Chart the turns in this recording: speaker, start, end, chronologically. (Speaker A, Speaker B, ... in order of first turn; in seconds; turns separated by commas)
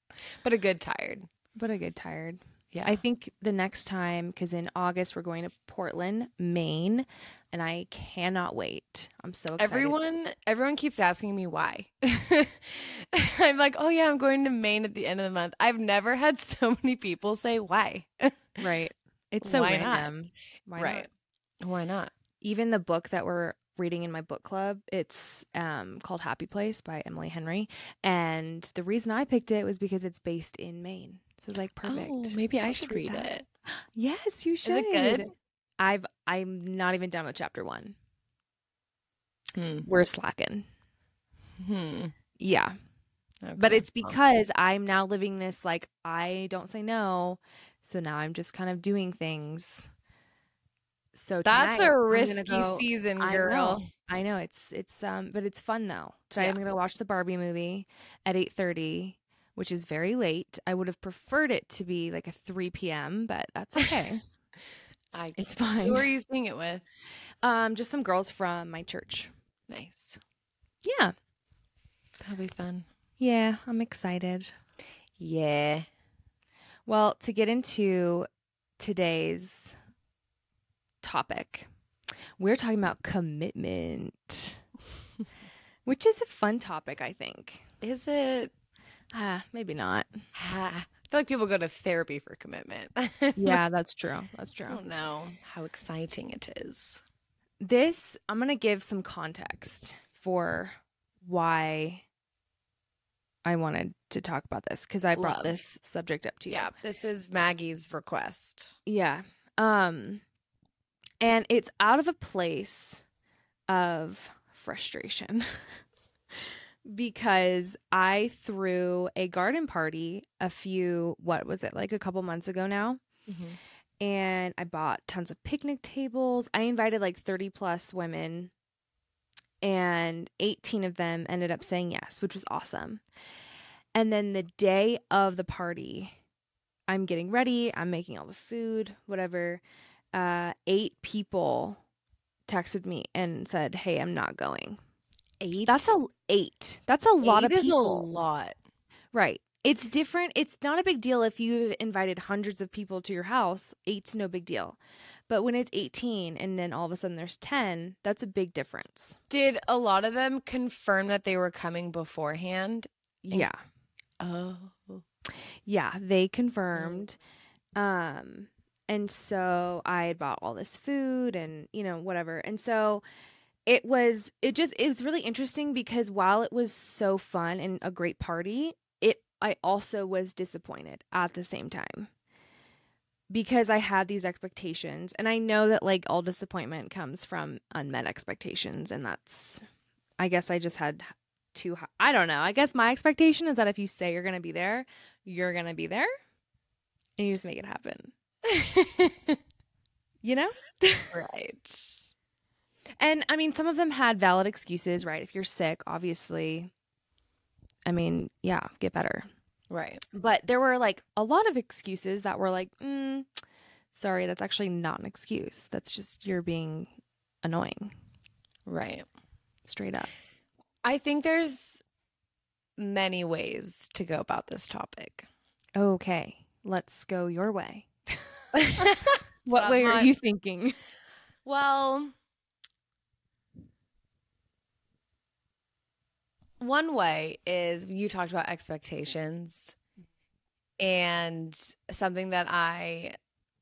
Speaker A: 0.4-1.3, Speaker B: 1.6-10.0, Speaker A: 2.7-3.0, Speaker A: 9.6-18.6, Speaker B: 18.6-21.1, Speaker A: 19.4-20.1, Speaker A: 20.8-21.1, Speaker A: 21.6-22.1, Speaker B: 22.4-38.0, Speaker A: 31.9-33.5, Speaker A: 34.6-35.3, Speaker A: 39.5-39.9, Speaker B: 39.9-40.7, Speaker A: 41.6-42.1, Speaker B: 42.4-42.7, Speaker A: 43.4-44.2, Speaker B: 43.6-49.9, Speaker B: 51.1-64.2, Speaker A: 51.4-53.9, Speaker A: 65.1-66.8, Speaker B: 65.3-66.1, Speaker B: 67.4-69.3, Speaker A: 69.7-70.2, Speaker B: 70.8-71.1, Speaker A: 72.2-72.9, Speaker B: 73.2-74.5, Speaker A: 75.2-75.8, Speaker B: 76.8-78.3, Speaker B: 78.8-79.8, Speaker B: 81.0-81.7, Speaker B: 82.4-84.6, Speaker B: 85.8-87.6, Speaker A: 87.8-88.5, Speaker B: 89.1-90.2, Speaker A: 90.3-93.6, Speaker B: 93.3-94.8, Speaker A: 94.7-97.0, Speaker B: 97.6-102.0, Speaker B: 103.4-106.7, Speaker A: 105.2-105.5, Speaker A: 106.5-108.8, Speaker B: 108.8-110.2, Speaker B: 111.2-113.0, Speaker B: 113.7-115.5, Speaker B: 116.8-123.0, Speaker A: 123.3-123.6, Speaker B: 124.0-128.5, Speaker B: 129.6-133.0, Speaker B: 133.9-136.1, Speaker B: 136.9-139.6, Speaker B: 140.1-141.8, Speaker B: 142.5-144.8, Speaker A: 145.4-145.9, Speaker B: 145.7-148.1, Speaker A: 147.2-148.6, Speaker B: 149.1-154.8, Speaker B: 155.3-159.2, Speaker A: 159.3-163.5, Speaker B: 163.2-163.6, Speaker A: 164.2-165.0, Speaker B: 165.7-167.2, Speaker A: 166.7-167.0, Speaker B: 167.8-173.0, Speaker B: 173.7-182.1, Speaker B: 183.3-189.6, Speaker B: 190.2-196.1, Speaker B: 197.2-198.1, Speaker A: 198.5-199.4, Speaker B: 200.2-201.1, Speaker A: 201.1-202.1, Speaker B: 203.0-206.7, Speaker B: 207.8-209.3, Speaker A: 209.7-210.0, Speaker B: 210.1-213.3, Speaker B: 213.9-216.9, Speaker B: 217.4-217.9, Speaker A: 218.7-219.1, Speaker B: 219.6-220.1, Speaker A: 220.8-221.8, Speaker A: 222.8-225.3, Speaker B: 225.8-230.8, Speaker A: 228.8-230.1, Speaker A: 231.4-232.1, Speaker A: 236.6-239.8, Speaker A: 240.8-243.2